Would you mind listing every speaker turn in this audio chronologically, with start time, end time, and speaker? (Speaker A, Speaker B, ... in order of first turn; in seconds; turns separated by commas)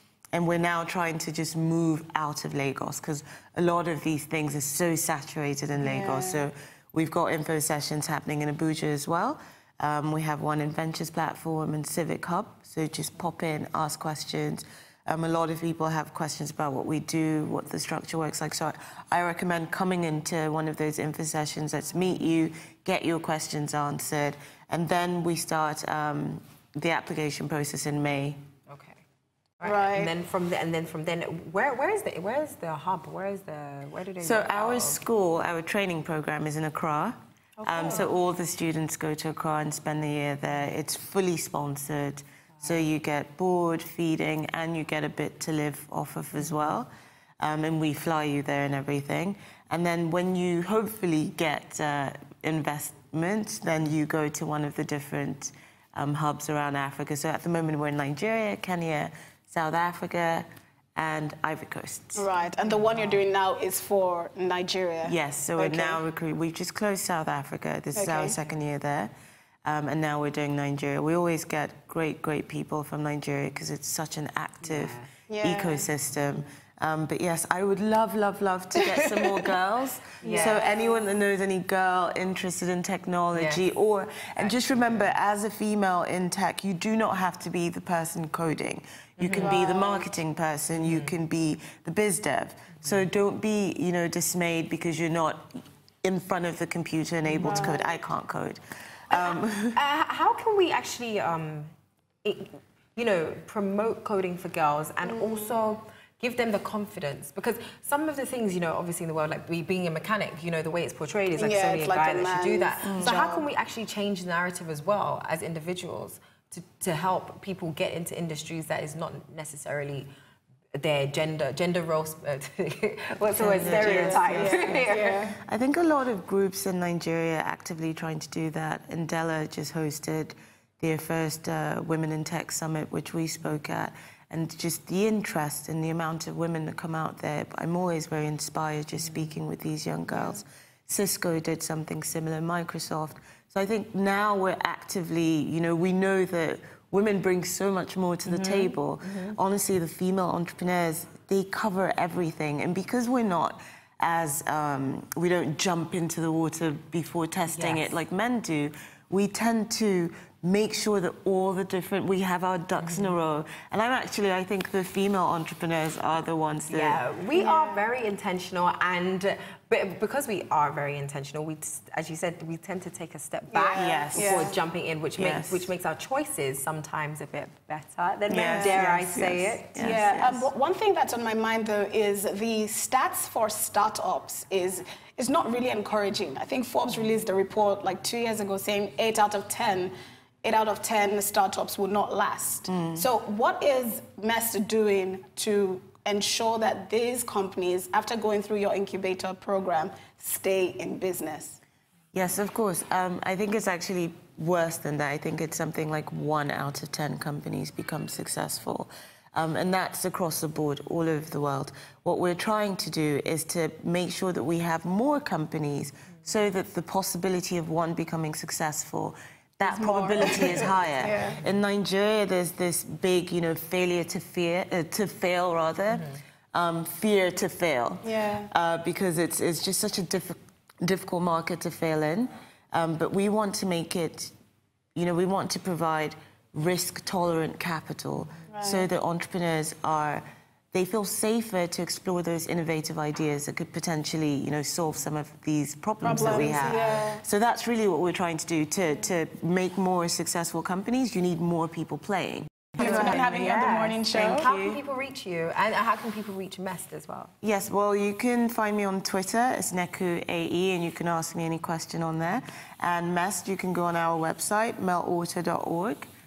Speaker A: 0.3-28.4, Speaker B: 5.8-6.4, Speaker C: 28.7-29.0, Speaker C: 29.6-35.0, Speaker B: 29.6-30.1, Speaker A: 34.2-46.9, Speaker B: 37.6-38.0, Speaker C: 37.8-38.0, Speaker A: 47.4-60.4, Speaker A: 61.0-62.3, Speaker B: 62.1-66.0, Speaker A: 65.0-69.1, Speaker B: 67.9-68.3, Speaker A: 69.6-99.8, Speaker C: 74.6-75.1, Speaker B: 75.3-75.9, Speaker C: 80.2-80.7, Speaker B: 80.2-81.0, Speaker C: 83.3-83.6, Speaker C: 84.4-85.1, Speaker C: 89.2-89.5, Speaker B: 89.3-90.1, Speaker C: 90.8-91.1, Speaker B: 97.3-97.9, Speaker C: 99.1-101.7, Speaker C: 102.2-120.1, Speaker B: 105.0-105.5, Speaker B: 111.3-113.5, Speaker A: 112.8-113.2, Speaker C: 120.7-125.2, Speaker A: 123.3-167.0, Speaker B: 123.6-125.3, Speaker C: 148.3-149.3, Speaker C: 157.5-157.9, Speaker C: 162.8-163.1, Speaker C: 166.7-180.0, Speaker B: 167.3-167.8, Speaker B: 173.5-174.6, Speaker A: 173.7-174.5, Speaker A: 175.2-175.7, Speaker A: 178.3-180.4, Speaker B: 178.3-179.0, Speaker B: 179.7-201.6, Speaker A: 192.7-193.0, Speaker A: 202.1-234.3, Speaker B: 219.7-221.4, Speaker C: 220.2-221.1, Speaker B: 228.0-228.5, Speaker A: 234.9-253.4, Speaker B: 238.5-238.8, Speaker B: 246.0-247.2, Speaker C: 246.2-246.9, Speaker B: 252.7-254.4, Speaker C: 252.8-257.3, Speaker A: 254.1-254.8, Speaker A: 257.4-266.1